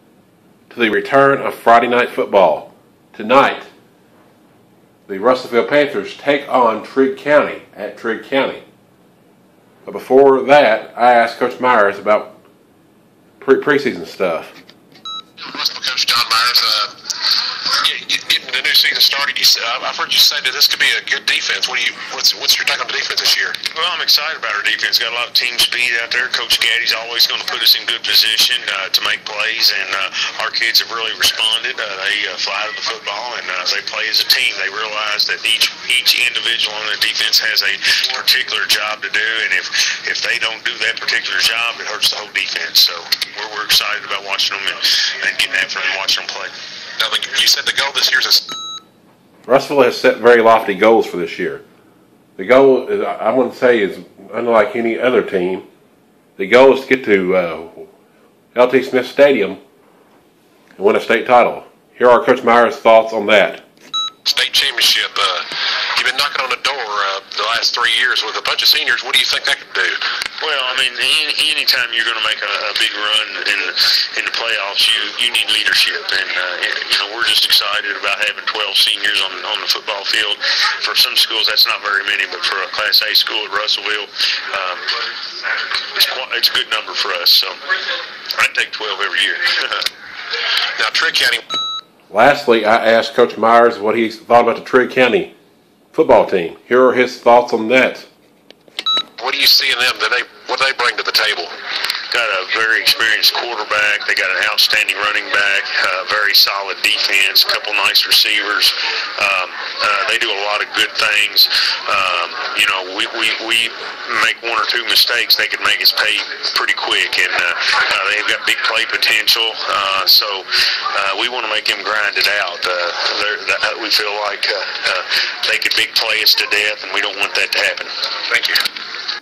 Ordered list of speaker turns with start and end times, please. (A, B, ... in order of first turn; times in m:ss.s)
0:00.7-0:03.7 A
0:05.1-0:08.6 A
0:09.9-0:12.4 A
0:13.4-0:14.5 A
0:15.4-0:16.9 B
0:17.7-0:23.6 B
0:23.7-0:46.5 C
0:47.0-0:48.5 B
0:49.5-0:51.6 A
0:52.4-0:55.7 A
0:56.4-0:57.9 A
0:58.5-0:59.6 A
1:00.8-1:03.6 A
1:04.2-1:10.0 B
1:10.4-1:25.0 C
1:25.8-1:27.6 C
1:28.4-1:29.9 C
1:30.8-1:31.4 B
1:32.1-1:35.4 A
1:35.9-1:38.1 A
1:39.2-1:41.5 B
1:42.1-2:07.9 C
2:08.3-2:08.6 B